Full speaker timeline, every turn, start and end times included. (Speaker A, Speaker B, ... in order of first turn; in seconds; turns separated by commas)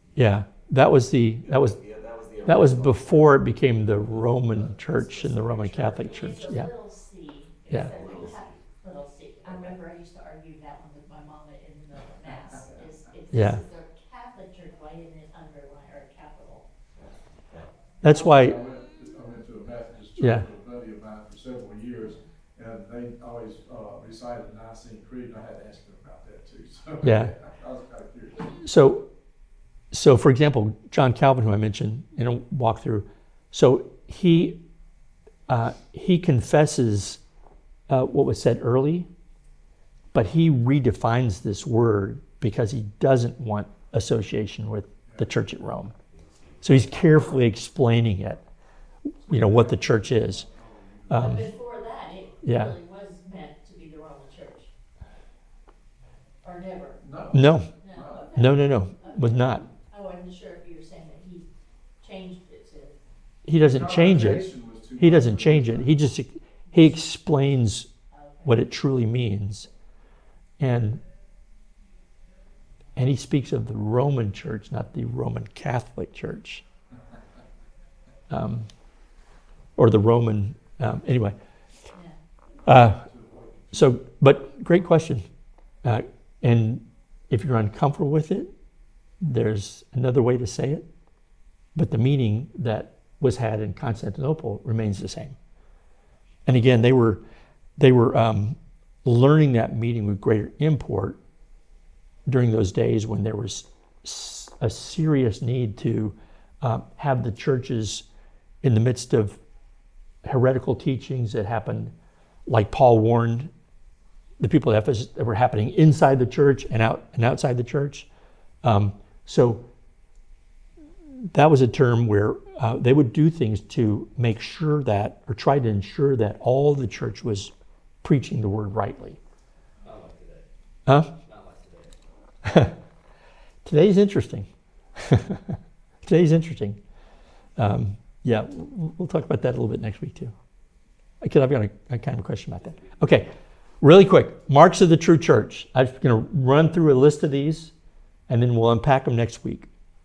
Speaker A: 0.1-1.8, Speaker B: 1.4-3.5, Speaker A: 2.4-6.7, Speaker B: 4.5-6.3, Speaker C: 5.9-16.6, Speaker B: 7.7-8.6, Speaker B: 9.4-9.7, Speaker A: 13.3-13.6, Speaker B: 16.9-17.7, Speaker A: 18.0-18.6, Speaker D: 18.0-28.6, Speaker A: 20.2-20.4, Speaker A: 27.0-27.3, Speaker A: 28.6-29.1, Speaker A: 29.9-34.6, Speaker A: 35.5-37.2, Speaker A: 37.9-39.1, Speaker A: 40.1-45.9, Speaker B: 46.1-46.8, Speaker A: 46.6-48.4, Speaker A: 49.2-50.5, Speaker D: 49.2-51.6, Speaker A: 51.1-51.5, Speaker C: 51.2-54.7, Speaker A: 52.4-52.7, Speaker C: 56.4-57.0, Speaker D: 57.0-58.3, Speaker A: 57.3-57.7, Speaker C: 57.8-61.5, Speaker A: 58.3-59.7, Speaker C: 62.0-63.0, Speaker A: 63.4-67.9, Speaker D: 63.6-66.0, Speaker C: 68.1-68.5, Speaker A: 68.4-69.7, Speaker A: 70.6-71.0, Speaker A: 73.0-76.6, Speaker A: 78.3-78.7, Speaker A: 79.8-81.4, Speaker A: 82.6-83.0, Speaker D: 82.6-84.0, Speaker A: 83.7-85.2, Speaker A: 85.8-88.5, Speaker A: 89.2-90.8, Speaker A: 91.7-95.4, Speaker A: 96.5-97.2, Speaker A: 97.8-101.2, Speaker A: 102.3-108.0, Speaker A: 108.6-109.4, Speaker A: 110.2-111.9, Speaker A: 112.5-113.5, Speaker A: 114.4-118.1, Speaker A: 118.6-119.7, Speaker A: 121.3-127.5, Speaker A: 128.0-129.2, Speaker E: 129.8-130.4, Speaker A: 130.8-131.1, Speaker E: 131.0-131.9, Speaker A: 132.4-132.7, Speaker A: 133.6-136.8, Speaker A: 137.6-140.3, Speaker A: 141.2-147.7, Speaker E: 142.6-143.1, Speaker A: 148.3-149.7